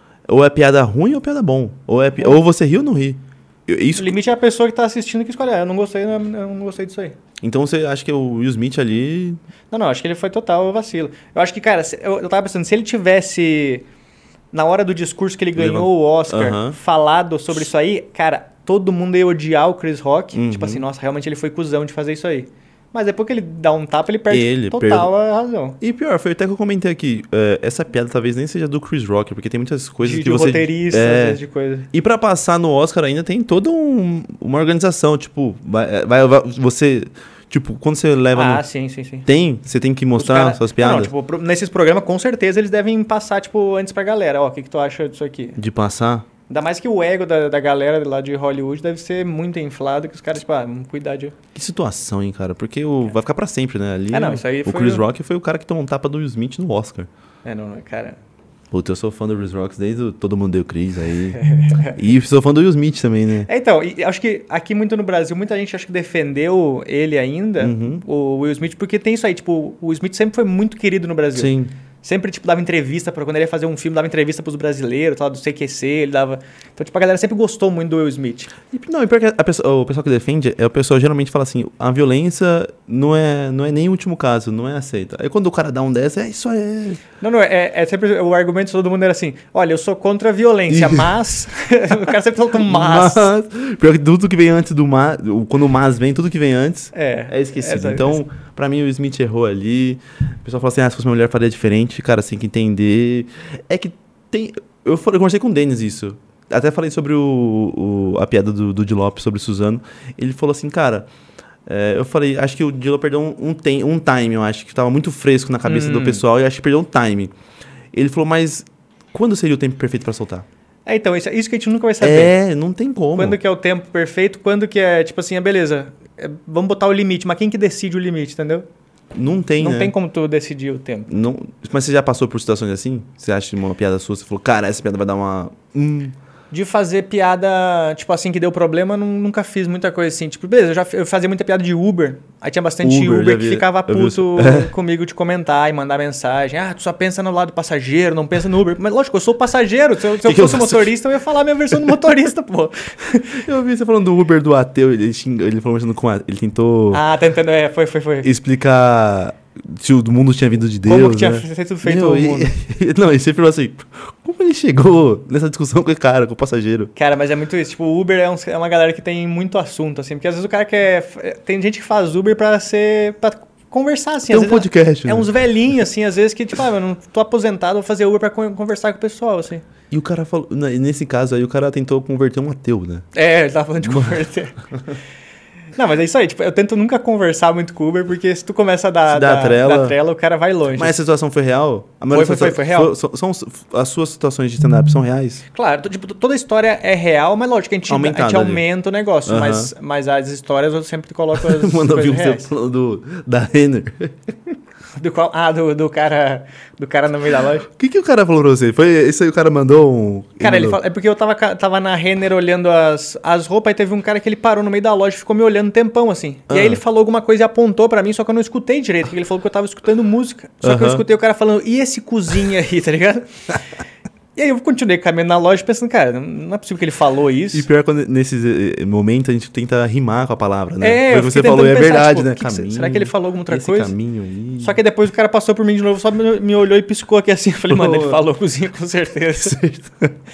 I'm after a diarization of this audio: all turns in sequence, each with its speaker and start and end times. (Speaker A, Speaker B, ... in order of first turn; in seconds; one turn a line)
Speaker A: 0.3-4.2
Speaker B: 4.0-7.2
Speaker A: 7.4-9.4
Speaker B: 9.7-13.9
Speaker B: 14.5-25.8
Speaker A: 15.6-16.8
Speaker A: 20.3-20.9
Speaker A: 24.3-25.1
Speaker A: 25.8-31.4
Speaker B: 30.0-31.9
Speaker A: 31.9-38.6
Speaker B: 38.3-39.3
Speaker A: 39.3-41.1
Speaker B: 40.2-45.6
Speaker A: 45.6-46.3
Speaker B: 46.5-51.3
Speaker A: 51.5-57.1
Speaker B: 54.1-55.0
Speaker B: 57.5-58.2
Speaker A: 58.7-63.5
Speaker B: 61.4-62.0
Speaker B: 63.5-78.5
Speaker A: 67.6-68.0
Speaker A: 71.3-71.7
Speaker A: 78.7-87.0
Speaker B: 87.2-93.3
Speaker A: 90.7-91.1
Speaker A: 92.5-111.1
Speaker B: 96.9-98.2
Speaker A: 111.7-117.3
Speaker B: 115.7-116.2
Speaker A: 117.9-120.5
Speaker B: 120.9-122.3
Speaker A: 122.0-123.4
Speaker B: 123.1-128.7
Speaker A: 129.1-129.9
Speaker B: 129.6-131.1
Speaker A: 131.1-136.2
Speaker B: 136.5-153.4
Speaker A: 142.8-144.7
Speaker A: 150.2-150.9
Speaker A: 151.7-152.0
Speaker A: 153.4-157.0
Speaker B: 156.9-158.3
Speaker A: 158.2-166.9
Speaker B: 160.9-162.5
Speaker B: 166.9-179.6
Speaker A: 174.3-175.3
Speaker A: 179.9-183.1
Speaker B: 183.1-184.6
Speaker A: 183.8-184.2
Speaker B: 185.8-190.9
Speaker A: 189.1-190.0
Speaker A: 190.8-195.4
Speaker B: 192.1-192.9
Speaker B: 195.5-202.5
Speaker A: 197.9-198.6
Speaker A: 199.3-199.7
Speaker A: 201.3-204.2
Speaker B: 205.0-207.7
Speaker A: 207.7-210.8
Speaker B: 210.4-223.3
Speaker A: 216.5-216.8
Speaker A: 220.6-221.0
Speaker B: 224.3-227.7
Speaker A: 227.5-234.8
Speaker B: 230.8-233.9
Speaker B: 234.6-239.6
Speaker A: 237.7-238.2
Speaker A: 239.4-240.1